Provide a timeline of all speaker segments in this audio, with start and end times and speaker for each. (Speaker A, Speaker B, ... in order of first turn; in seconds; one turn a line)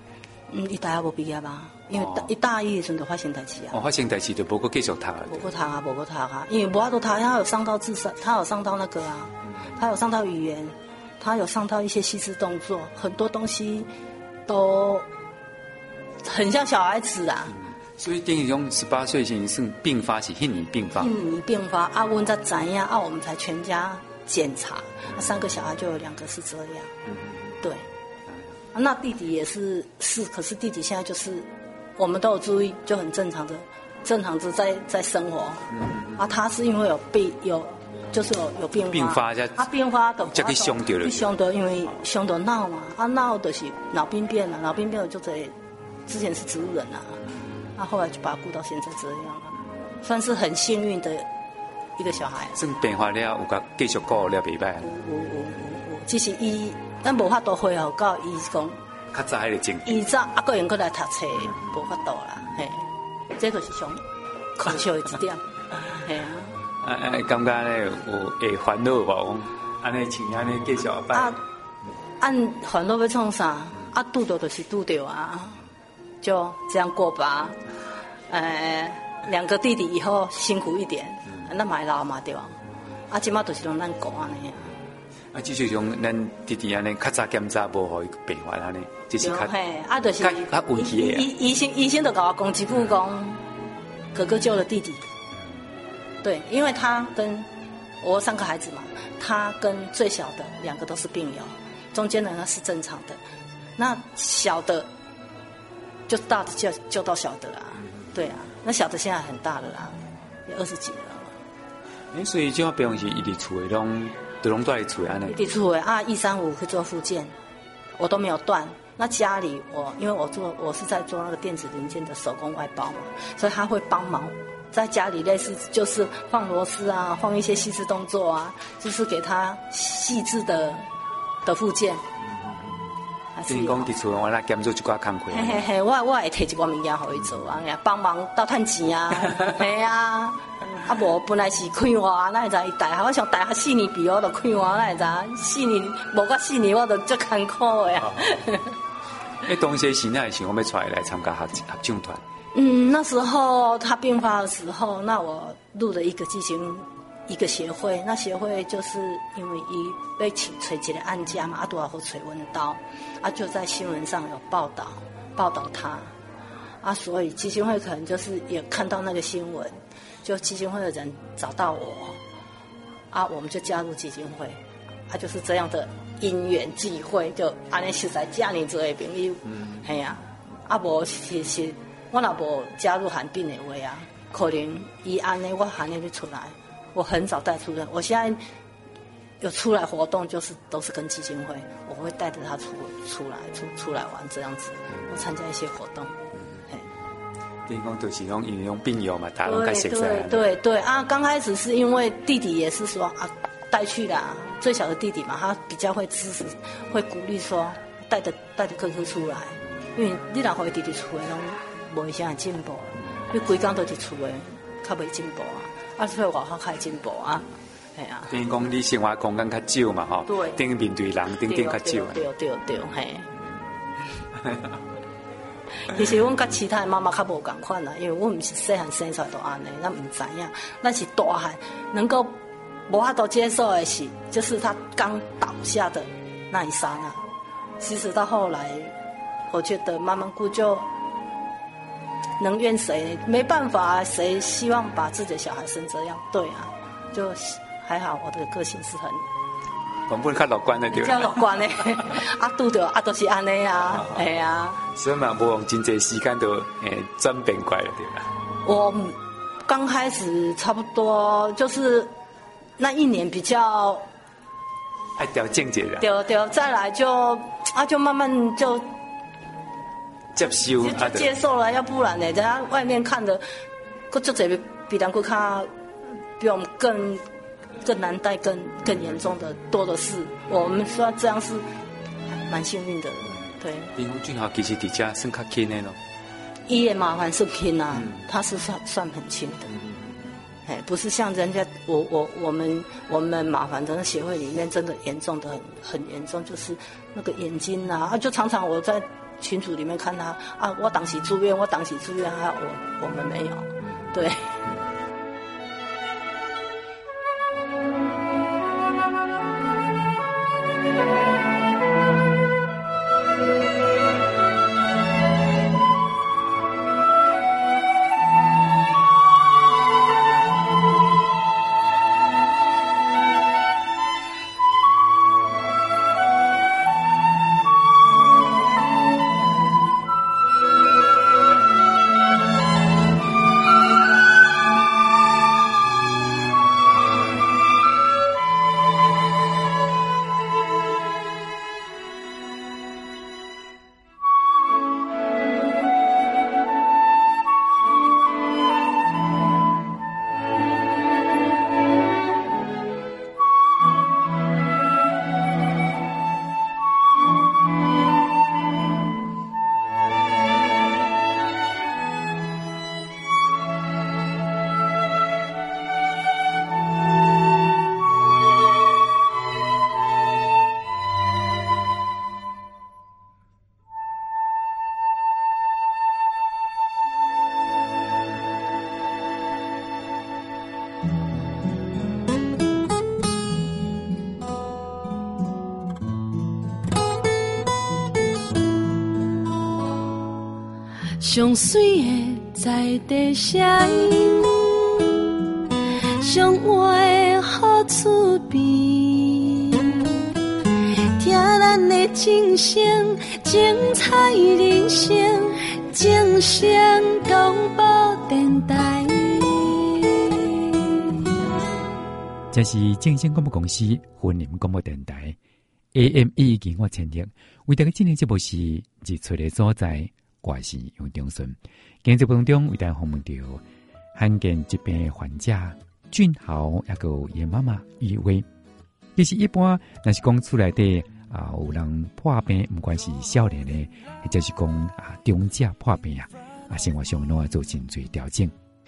Speaker A: 0.5-3.8
Speaker B: 2.0-2.3
Speaker B: 3.7-5.5
Speaker A: 5.3-13.9
Speaker A: 14.5-15.1
Speaker A: 16.2-17.6
Speaker B: 18.0-21.1
Speaker A: 20.9-26.9
Speaker B: 27.1-27.6
Speaker A: 28.7-45.5
Speaker B: 35.7-36.2
Speaker B: 38.9-39.7
Speaker B: 40.3-41.3
Speaker A: 46.1-47.2
Speaker A: 47.8-51.2
Speaker A: 52.0-52.6
Speaker B: 52.6-54.9
Speaker A: 54.8-58.8
Speaker B: 59.1-60.0
Speaker A: 59.9-64.0
Speaker A: 64.6-65.4
Speaker A: 65.9-66.5
Speaker B: 66.8-71.3
Speaker A: 71.1-71.4
Speaker A: 72.2-75.6
Speaker A: 76.2-77.6
Speaker A: 78.3-82.6
Speaker A: 83.1-84.7
Speaker B: 85.3-89.5
Speaker A: 89.2-93.4
Speaker B: 90.2-91.2
Speaker A: 94.1-95.0
Speaker A: 96.2-97.5
Speaker A: 98.0-103.2
Speaker A: 103.8-104.9
Speaker A: 106.1-111.3
Speaker B: 112.1-115.4
Speaker A: 115.3-117.3
Speaker A: 118.0-130.8
Speaker A: 131.4-132.0
Speaker A: 133.3-133.9
Speaker B: 133.5-135.7
Speaker A: 135.3-148.7
Speaker B: 149.4-152.2
Speaker A: 152.5-166.1
Speaker A: 166.8-172.2
Speaker A: 173.1-188.4
Speaker A: 189.4-196.2
Speaker B: 197.7-200.4
Speaker A: 199.4-218.3
Speaker B: 218.3-222.2
Speaker A: 220.2-220.6
Speaker A: 221.4-223.3
Speaker B: 224.4-224.8
Speaker A: 225.8-237.2
Speaker A: 237.8-238.9
Speaker A: 239.5-240.8
Speaker A: 242.4-249.2
Speaker B: 250.1-251.6
Speaker A: 250.9-254.8
Speaker B: 253.9-254.2
Speaker B: 254.8-258.3
Speaker A: 258.6-262.1
Speaker A: 262.8-264.1
Speaker B: 265.2-266.1
Speaker A: 266.0-268.8
Speaker B: 270.3-271.3
Speaker A: 270.8-273.4
Speaker A: 274.1-275.7
Speaker A: 276.4-277.2
Speaker A: 277.8-281.7
Speaker A: 282.4-283.9
Speaker B: 283.9-286.0
Speaker A: 286.7-289.7
Speaker A: 290.7-304.6
Speaker C: 391.2-395.3
Speaker C: 396.2-400.1
Speaker C: 400.8-411.2
Speaker D: 412.5-415.4
Speaker D: 415.9-423.6
Speaker D: 424.1-428.4
Speaker D: 429.2-438.5